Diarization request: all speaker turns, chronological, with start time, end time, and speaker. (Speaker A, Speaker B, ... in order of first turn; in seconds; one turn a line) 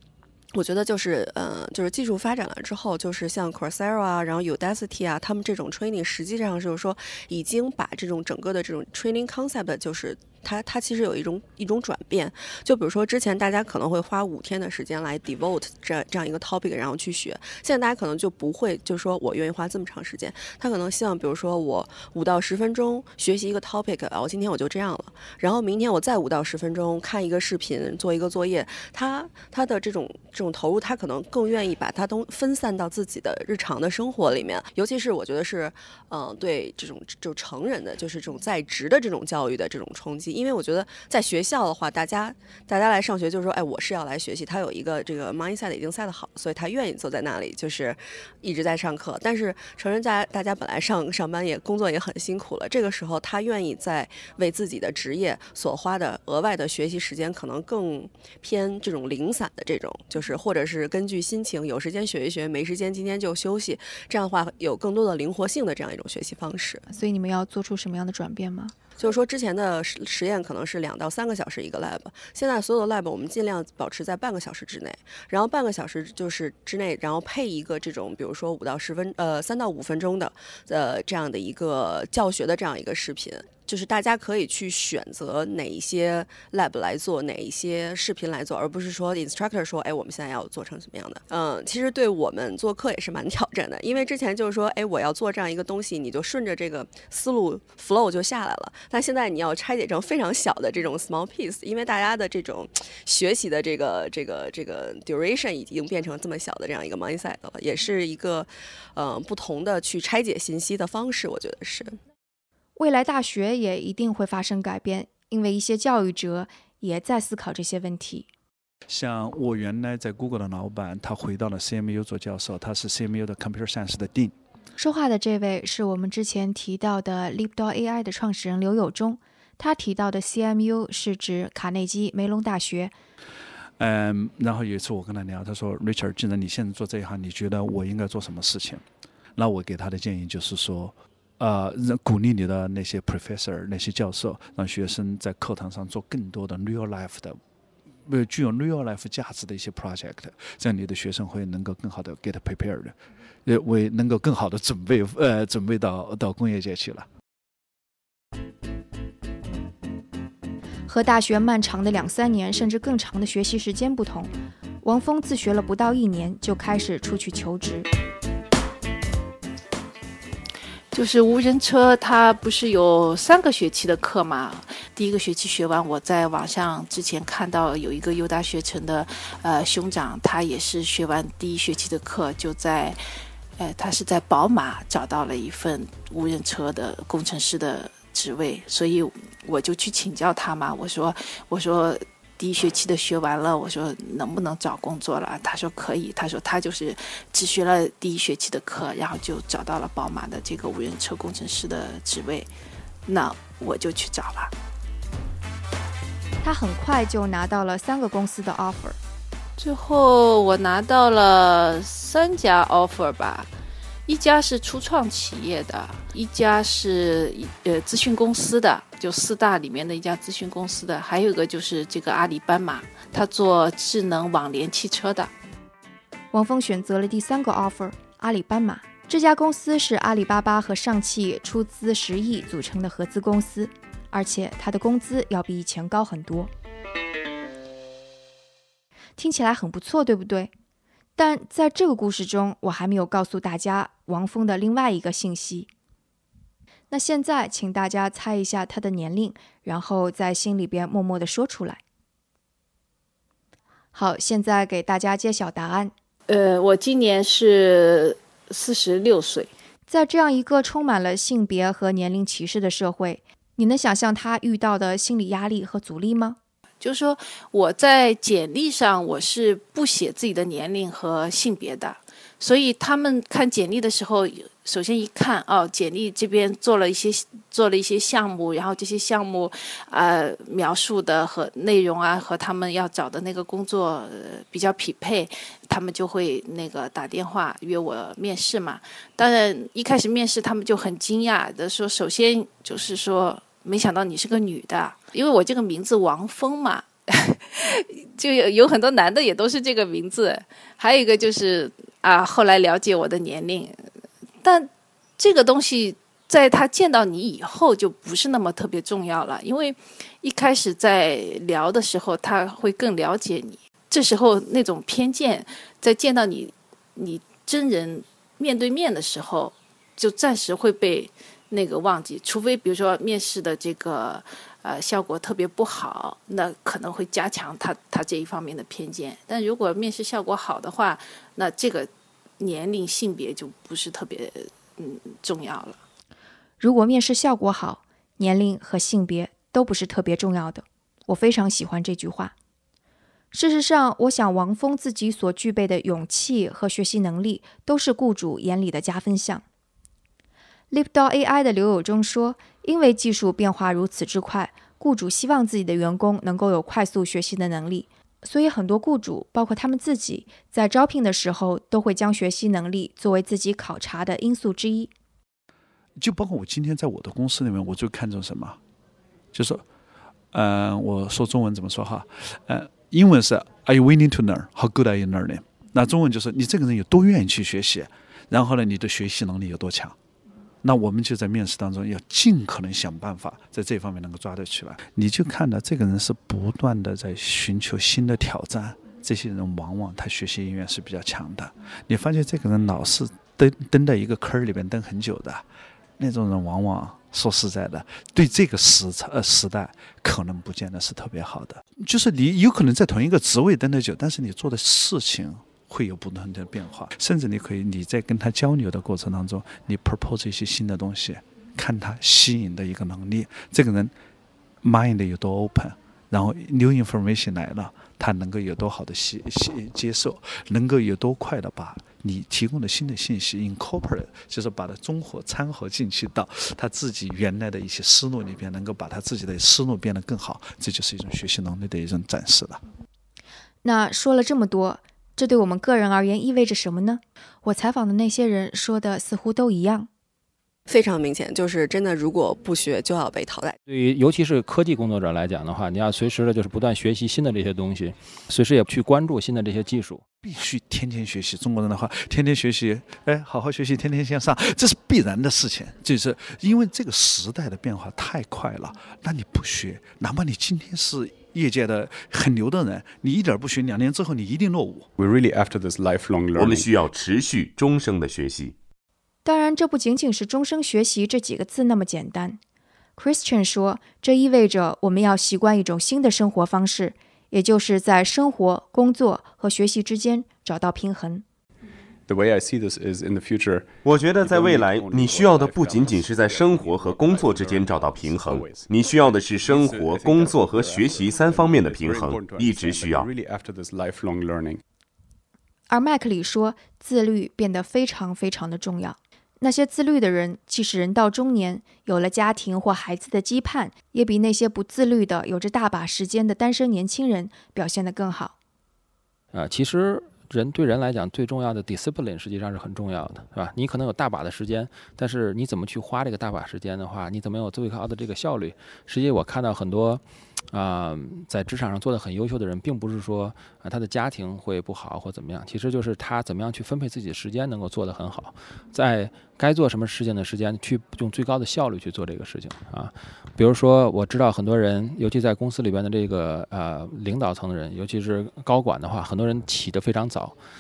Speaker A: 0.5-66.8
Speaker B: 66.9-68.7
Speaker A: 69.0-112.0
Speaker B: 112.8-118.3
Speaker C: 118.9-124.3
Speaker B: 124.8-132.9
Speaker C: 133.8-138.8
Speaker C: 139.4-147.4
Speaker C: 148.0-157.1
Speaker B: 160.9-164.3
Speaker B: 164.8-167.9
Speaker D: 170.9-183.0
Speaker D: 183.6-202.5
Speaker D: 203.1-204.5
Speaker B: 206.4-209.0
Speaker D: 209.6-213.5
Speaker D: 214.1-225.3
Speaker B: 226.3-236.5
Speaker B: 239.2-240.5
Speaker B: 241.2-245.7
Speaker B: 246.9-251.8
Speaker B: 253.9-255.9
Speaker D: 256.3-259.5
Speaker B: 259.9-266.4
Speaker D: 266.8-303.8
Speaker D: 304.4-335.8
Speaker B: 336.6-342.3
Speaker B: 343.3-349.4
Speaker B: 350.7-364.9
Speaker C: 366.0-368.6
Speaker C: 369.3-369.6
Speaker C: 370.3-379.9
Speaker C: 380.6-395.4
Speaker C: 396.0-413.9
Speaker C: 414.6-432.6
Speaker B: 433.6-439.9
Speaker A: 440.7-443.6
Speaker E: 443.7-450.0
Speaker C: 450.2-464.9
Speaker F: 465.0-466.7
Speaker G: 466.4-468.6
Speaker B: 469.2-472.4
Speaker B: 473.0-481.2
Speaker F: 482.1-494.6
Speaker G: 483.8-493.1
Speaker B: 495.7-508.3
Speaker E: 509.3-540.3